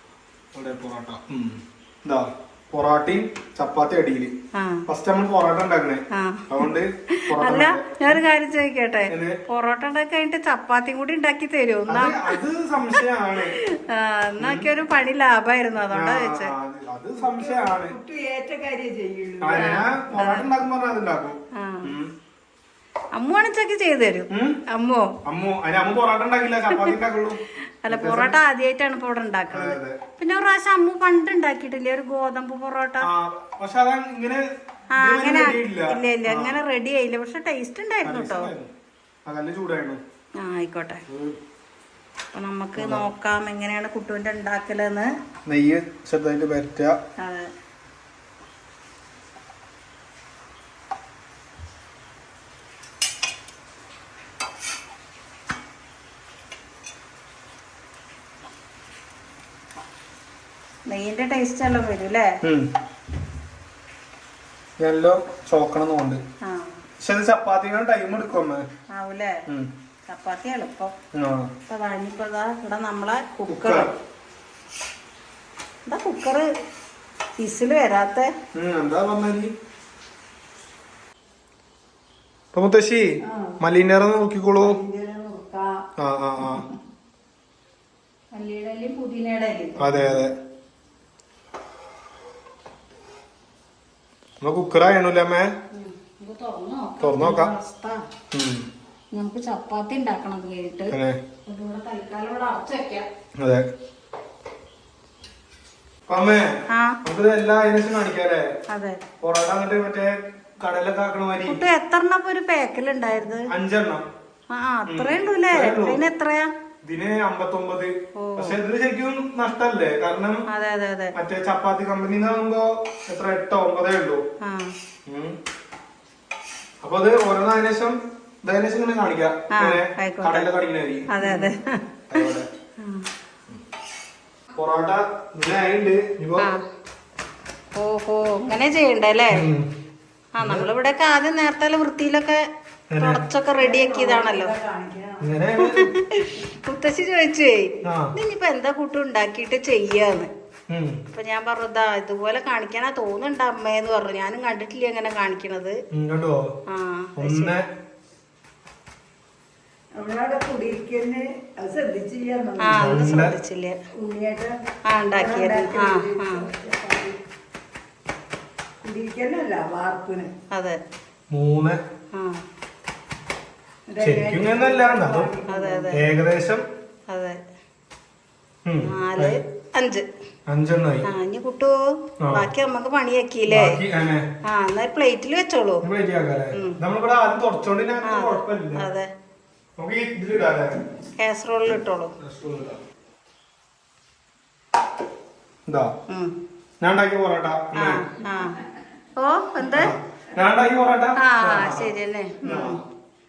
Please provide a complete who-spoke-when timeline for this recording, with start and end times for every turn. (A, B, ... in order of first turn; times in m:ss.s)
0:00.5-0:04.3 A
0:04.5-0:04.8 B
0:04.9-0:08.2 A
0:06.1-0:06.5 B
0:07.1-0:13.0 B
0:09.1-0:09.4 A
0:11.9-0:13.6 A
0:13.5-0:16.5 B
0:14.4-0:14.7 A
0:15.9-0:17.9 A
0:17.2-0:19.8 C
0:19.4-0:22.1 A
0:19.6-0:20.5 B
0:21.5-0:21.9 B
0:23.1-0:25.1 B
0:24.3-0:24.6 A
0:25.2-0:28.3 A
0:27.7-0:33.1 B
0:29.5-0:30.0 A
0:33.0-0:34.4 A
0:34.9-0:38.5 B
0:35.0-0:36.6 A
0:38.0-0:38.7 A
0:39.3-0:40.0 A
0:40.4-0:41.0 B
0:41.1-0:41.4 A
0:42.3-0:45.1 B
0:42.8-0:43.0 A
0:45.4-0:47.0 A
0:47.2-0:47.5 B
1:00.9-1:02.3 B
1:02.4-1:02.7 A
1:04.8-1:06.2 A
1:06.4-1:06.8 B
1:07.0-1:08.6 A
1:08.9-1:09.4 B
1:10.1-1:10.9 B
1:11.1-1:11.5 A
1:11.7-1:13.9 B
1:13.5-1:13.9 A
1:15.8-1:16.5 B
1:17.4-1:18.3 B
1:18.5-1:19.5 A
1:22.5-1:24.8 A
1:23.2-1:23.6 C
1:24.6-1:25.8 C
1:26.0-1:26.6 A
1:28.3-1:30.0 B
1:29.8-1:30.3 A
1:34.4-1:35.5 A
1:35.7-1:38.0 B
1:37.0-1:37.5 A
1:38.3-1:38.6 A
1:39.1-1:43.0 B
1:40.9-1:41.2 A
1:43.4-1:43.6 A
1:46.1-1:48.4 A
1:46.7-1:47.0 B
1:48.7-1:49.0 B
1:49.2-1:51.6 A
1:51.4-1:53.5 B
1:53.5-1:54.0 A
1:54.5-1:56.5 B
1:54.9-1:56.0 A
1:56.8-2:00.4 A
1:58.2-1:58.6 B
2:00.5-2:01.1 B
2:01.1-2:04.2 A
2:04.4-2:04.7 B
2:05.1-2:05.4 A
2:06.8-2:11.4 A
2:09.5-2:10.4 B
2:11.1-2:11.8 B
2:12.1-2:12.5 A
2:12.8-2:13.1 B
2:14.6-2:16.5 A
2:17.7-2:19.4 B
2:19.3-2:19.7 A
2:20.4-2:22.4 B
2:20.4-2:20.7 A
2:22.9-2:23.2 A
2:23.0-2:24.5 B
2:23.5-2:25.3 C
2:25.2-2:25.9 A
2:25.6-2:30.3 B
2:27.8-2:28.1 A
2:30.7-2:31.0 A
2:31.1-2:35.8 B
2:35.9-2:36.4 A
2:36.7-2:37.5 B
2:37.2-2:37.6 A
2:39.9-2:43.0 C
2:42.6-2:43.8 B
2:42.7-2:43.3 A
2:43.9-2:44.6 C
2:44.9-2:46.5 B
2:45.1-2:47.2 C
2:48.8-2:50.3 C
2:50.5-2:50.8 B
2:51.3-2:51.8 A
2:52.1-2:52.4 B
2:53.9-2:56.0 C
2:54.0-2:55.3 A
2:55.5-2:56.0 B
2:55.9-2:56.6 A
2:57.1-2:57.4 B
2:58.6-2:59.4 A
2:58.8-3:00.0 B
3:00.5-3:01.0 A
3:01.0-3:01.8 B
3:02.2-3:02.4 A
3:02.3-3:03.8 B
3:03.5-3:04.2 A
3:04.4-3:05.8 B
3:05.8-3:08.8 A
3:06.5-3:06.8 B
3:08.0-3:09.1 B
3:09.8-3:10.7 A
3:11.2-3:12.2 B
3:12.2-3:12.8 A
3:16.1-3:16.3 B
3:16.8-3:18.0 A
3:17.7-3:18.6 B
3:19.2-3:19.9 B
3:19.7-3:22.8 A
3:21.2-3:22.8 B